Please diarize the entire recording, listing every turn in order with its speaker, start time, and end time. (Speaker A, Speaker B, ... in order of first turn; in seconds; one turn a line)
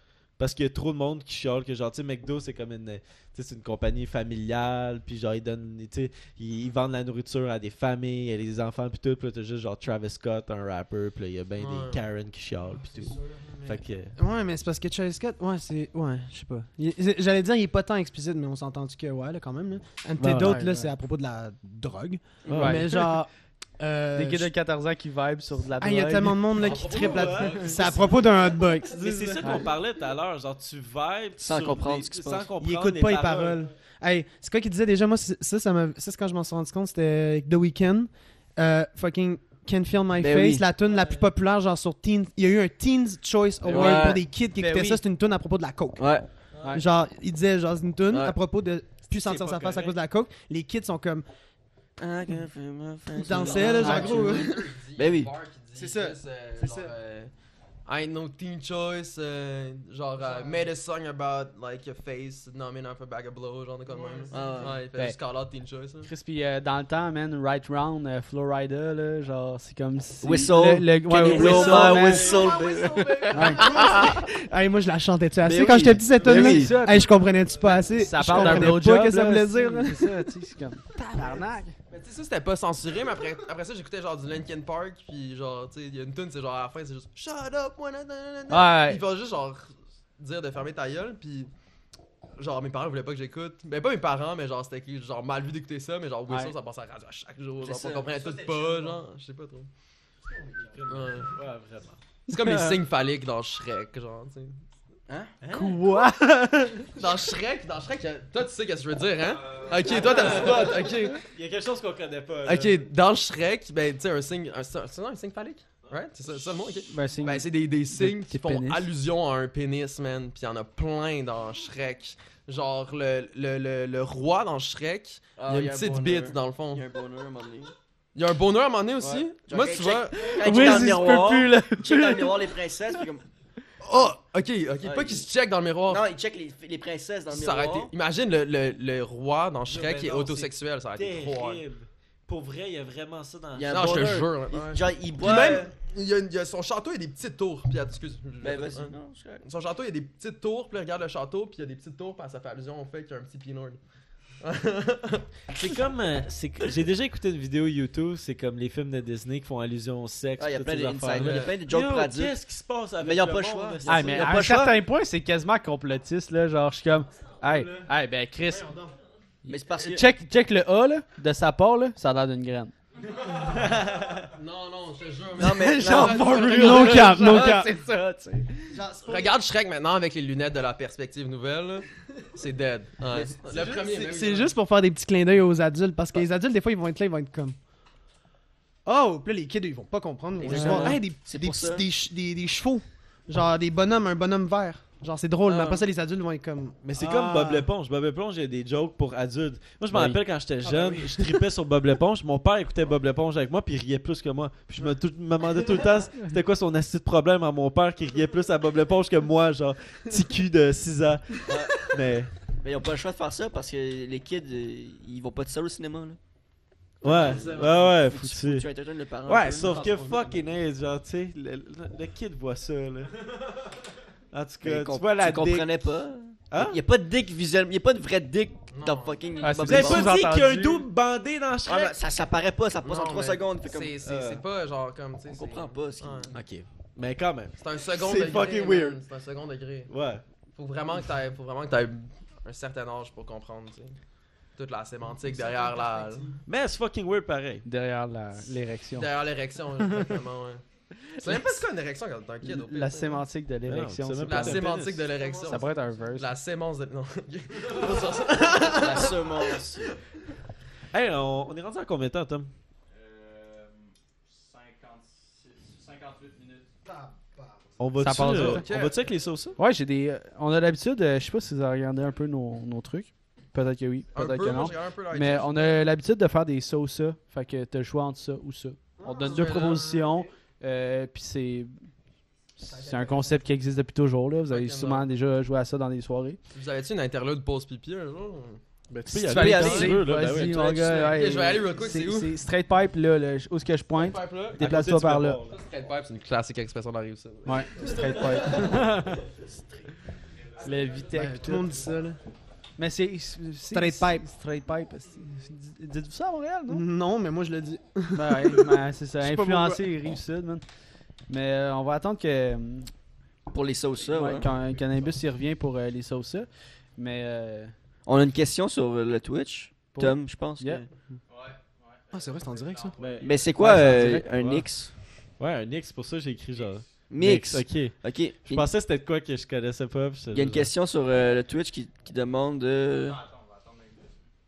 Speaker A: 0.3-14.1
Speaker B: 11.6-12.0
Speaker C: 12.9-24.5
Speaker A: 20.2-20.6
Speaker D: 20.3-20.9
Speaker E: 22.4-22.9
Speaker A: 22.5-22.9
Speaker D: 22.5-22.8
Speaker D: 24.1-26.5
Speaker C: 25.8-29.5
Speaker B: 26.6-28.2
Speaker A: 26.6-28.0
Speaker A: 28.9-33.6
Speaker E: 31.4-32.5
Speaker C: 32.6-46.1
Speaker E: 40.2-40.6
Speaker E: 43.7-44.2
Speaker D: 43.7-45.0
Speaker E: 46.0-46.2
Speaker B: 46.5-46.8
Speaker C: 46.7-51.2
Speaker A: 49.2-49.9
Speaker E: 52.0-55.3
Speaker C: 53.1-54.6
Speaker B: 53.4-57.3
Speaker D: 53.8-54.2
Speaker C: 55.8-56.9
Speaker B: 57.9-66.1
Speaker C: 60.2-60.6
Speaker C: 63.9-64.7
Speaker E: 64.3-64.8
Speaker D: 66.0-72.4
Speaker E: 70.2-74.2
Speaker A: 71.2-72.1
Speaker C: 71.5-80.2
Speaker D: 73.3-74.1
Speaker E: 75.4-76.8
Speaker D: 76.2-77.1
Speaker D: 77.9-81.7
Speaker C: 81.0-81.4
Speaker B: 81.9-91.5
Speaker D: 88.5-89.0
Speaker B: 92.4-99.7
Speaker D: 96.3-96.5
Speaker E: 97.6-98.1
Speaker C: 98.2-99.0
Speaker C: 100.2-101.0
Speaker A: 100.6-102.0
Speaker B: 100.9-101.3
Speaker B: 102.3-104.6
Speaker D: 102.3-102.7
Speaker E: 105.1-105.3
Speaker A: 105.4-105.8
Speaker D: 105.5-106.9
Speaker B: 107.0-111.2
Speaker A: 109.6-112.8
Speaker B: 112.4-126.8
Speaker D: 116.9-118.9
Speaker E: 125.4-127.7
Speaker B: 128.1-130.8
Speaker E: 129.0-133.2
Speaker D: 130.2-132.4
Speaker B: 133.8-136.0
Speaker E: 134.8-135.2
Speaker E: 135.9-137.9
Speaker B: 137.3-141.6
Speaker A: 139.7-144.2
Speaker E: 143.5-145.7
Speaker B: 143.7-153.8
Speaker E: 148.4-149.4
Speaker B: 154.4-155.2
Speaker A: 155.5-164.8
Speaker E: 160.4-162.4
Speaker E: 163.0-164.6
Speaker D: 163.8-168.7
Speaker C: 167.4-167.9
Speaker C: 168.4-168.9
Speaker D: 169.4-172.7
Speaker E: 169.5-170.1
Speaker C: 173.2-173.7
Speaker A: 173.7-174.1
Speaker B: 174.3-177.6
Speaker E: 175.4-177.4
Speaker C: 175.4-177.7
Speaker D: 176.6-178.5
Speaker C: 178.7-179.3
Speaker B: 179.1-184.5
Speaker C: 183.5-187.6
Speaker C: 188.8-197.7
Speaker E: 190.4-191.8
Speaker D: 190.6-190.9
Speaker A: 190.7-191.0
Speaker E: 195.4-195.8
Speaker A: 196.8-212.4
Speaker D: 199.9-200.2
Speaker C: 200.6-201.3
Speaker E: 211.5-211.9
Speaker E: 212.6-216.2
Speaker E: 217.0-219.9
Speaker A: 217.0-218.7
Speaker C: 217.2-217.7
Speaker A: 219.2-223.3
Speaker C: 219.6-220.4
Speaker A: 224.3-225.8
Speaker E: 224.6-230.2
Speaker A: 226.5-226.8
Speaker B: 228.7-229.4
Speaker D: 229.4-230.8
Speaker A: 229.6-232.0
Speaker E: 231.6-234.0
Speaker B: 232.8-236.3
Speaker A: 234.0-234.4
Speaker E: 235.3-236.4
Speaker A: 236.3-239.0
Speaker B: 237.6-239.9
Speaker E: 238.0-238.5
Speaker A: 239.9-240.2
Speaker B: 240.6-244.0
Speaker B: 244.6-246.3
Speaker C: 245.1-246.4
Speaker A: 246.4-247.7
Speaker D: 247.6-249.1
Speaker B: 248.9-250.6
Speaker B: 251.2-253.2
Speaker D: 252.4-254.7
Speaker A: 253.7-255.1
Speaker B: 254.2-259.6
Speaker C: 255.2-255.9
Speaker D: 255.4-256.3
Speaker C: 257.7-258.1
Speaker E: 258.7-260.0
Speaker A: 260.9-262.5
Speaker F: 262.9-266.7
Speaker C: 266.8-267.7
Speaker A: 267.8-269.6
Speaker D: 268.0-268.7
Speaker B: 268.2-269.1
Speaker D: 269.6-281.8
Speaker B: 274.1-275.9
Speaker C: 279.0-280.3
Speaker B: 279.2-279.8
Speaker D: 282.6-286.4
Speaker C: 282.6-283.4
Speaker B: 284.5-285.1
Speaker B: 286.5-288.6
Speaker A: 288.9-291.2
Speaker D: 289.1-295.4
Speaker E: 289.2-290.0
Speaker E: 290.6-290.9
Speaker B: 290.9-292.4
Speaker B: 293.9-294.6
Speaker A: 294.6-295.6
Speaker B: 295.5-298.1
Speaker D: 297.4-299.2
Speaker F: 297.9-298.7
Speaker F: 300.2-302.3
Speaker D: 300.6-301.8
Speaker C: 301.1-302.2
Speaker D: 302.8-306.9
Speaker C: 303.7-304.2
Speaker C: 306.7-309.9
Speaker D: 308.1-310.6
Speaker D: 311.3-312.9
Speaker E: 313.5-314.5
Speaker D: 314.0-317.7
Speaker E: 318.1-320.9
Speaker D: 319.9-320.8
Speaker F: 321.3-323.7
Speaker C: 322.1-323.0
Speaker A: 323.0-330.7
Speaker E: 323.2-324.9
Speaker D: 323.6-324.2
Speaker F: 326.5-327.2
Speaker E: 327.1-328.7
Speaker E: 330.3-333.2
Speaker F: 332.9-334.2